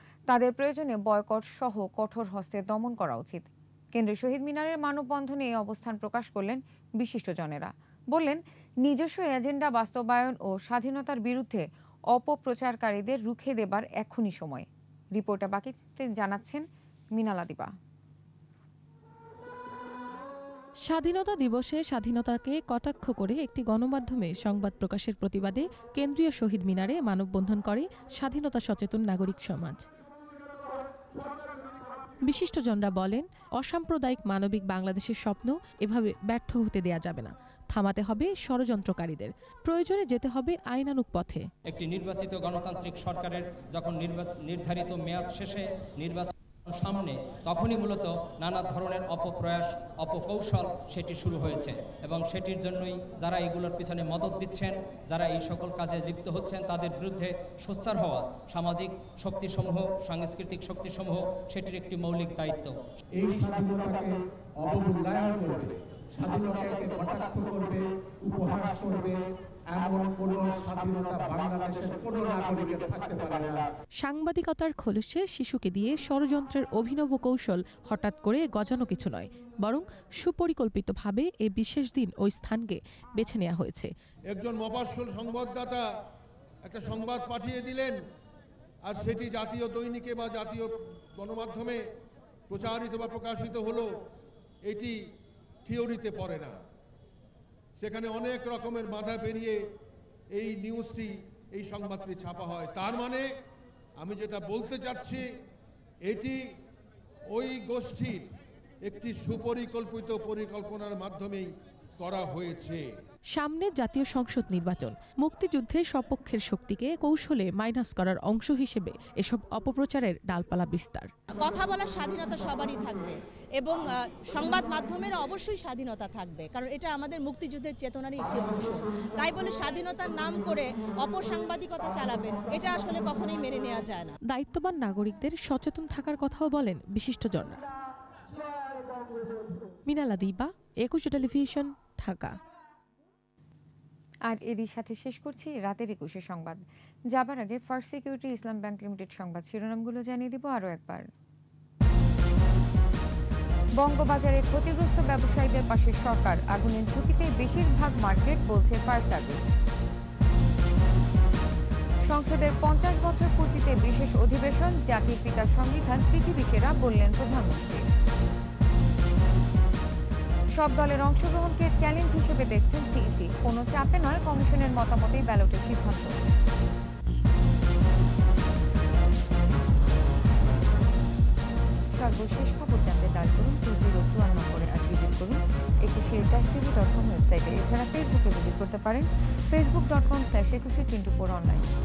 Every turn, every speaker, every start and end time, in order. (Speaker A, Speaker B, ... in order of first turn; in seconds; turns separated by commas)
Speaker A: 0.3-17.7, Speaker B: 20.9-29.9, Speaker B: 32.3-41.5, Speaker C: 41.7-62.8, Speaker D: 63.2-64.1, Speaker D: 64.6-69.2, Speaker D: 69.7-73.6, Speaker B: 74.0-83.9, Speaker E: 84.3-85.9, Speaker E: 86.6-88.0, Speaker E: 88.8-91.8, Speaker E: 92.5-93.9, Speaker E: 94.6-95.0, Speaker E: 95.7-96.6, Speaker E: 97.8-99.6, Speaker E: 100.3-103.3, Speaker E: 104.0-105.3, Speaker E: 106.0-106.4, Speaker E: 107.3-108.3, Speaker E: 108.8-111.5, Speaker E: 112.0-112.9, Speaker B: 113.3-121.1, Speaker F: 121.3-134.1, Speaker B: 134.2-137.6, Speaker B: 139.9-142.4, Speaker A: 144.3-151.1, Speaker A: 153.8-159.5, Speaker A: 162.1-167.8, Speaker A: 170.6-176.2, Speaker A: 181.9-191.7